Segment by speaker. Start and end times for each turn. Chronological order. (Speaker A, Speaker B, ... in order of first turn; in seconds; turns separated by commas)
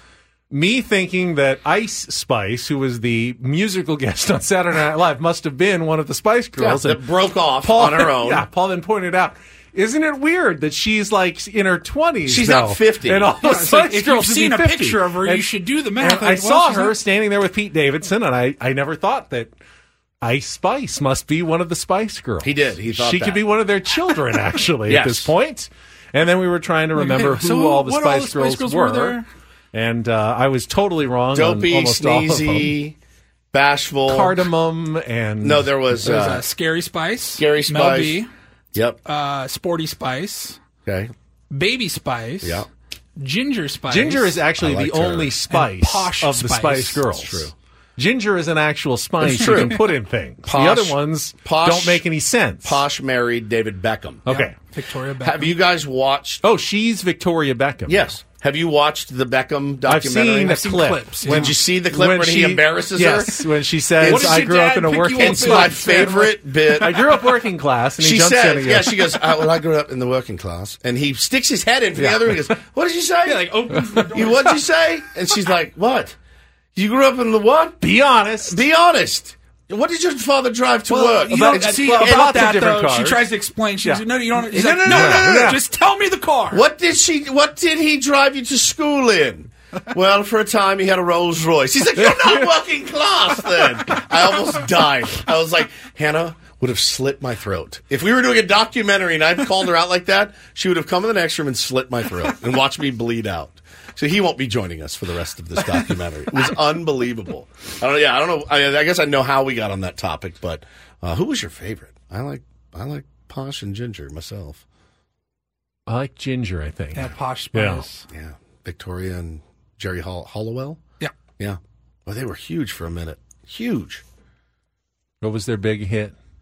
Speaker A: 0.5-7.0, Speaker B: 6.6-8.4, Speaker A: 7.6-15.5, Speaker B: 12.3-13.4, Speaker C: 13.4-17.0, Speaker A: 16.0-19.5, Speaker A: 20.2-29.2, Speaker B: 22.4-23.4, Speaker B: 24.9-25.3, Speaker C: 27.0-29.3, Speaker A: 29.7-32.8, Speaker B: 31.3-33.0, Speaker B: 33.5-34.5, Speaker A: 34.1-35.7, Speaker B: 35.4-36.4, Speaker C: 36.0-38.3, Speaker B: 37.4-39.0, Speaker C: 39.0-40.6, Speaker B: 40.9-41.1, Speaker C: 41.5-42.6, Speaker C: 43.2-44.4, Speaker A: 43.9-52.8, Speaker B: 44.6-45.4, Speaker C: 45.5-47.0, Speaker B: 47.1-47.5, Speaker B: 49.2-49.8, Speaker B: 50.5-52.0, Speaker B: 52.6-54.3, Speaker A: 54.3-54.5, Speaker C: 54.3-55.5, Speaker B: 55.2-56.4, Speaker A: 56.4-58.0, Speaker B: 57.9-63.5, Speaker A: 59.9-65.9, Speaker C: 60.4-61.6, Speaker B: 64.0-64.6, Speaker C: 64.0-66.8, Speaker B: 65.1-67.2, Speaker A: 66.8-69.2, Speaker B: 68.0-76.2, Speaker A: 72.0-72.5, Speaker C: 73.2-74.6, Speaker B: 76.8-77.8, Speaker A: 77.8-78.6, Speaker B: 78.5-82.4, Speaker C: 80.9-86.6, Speaker A: 81.0-83.2, Speaker B: 84.5-85.6, Speaker A: 84.5-85.6, Speaker B: 86.5-114.6, Speaker A: 92.0-92.5, Speaker A: 115.9-117.9, Speaker C: 117.0-118.1, Speaker B: 118.1-120.8, Speaker B: 121.4-124.0, Speaker A: 125.2-126.2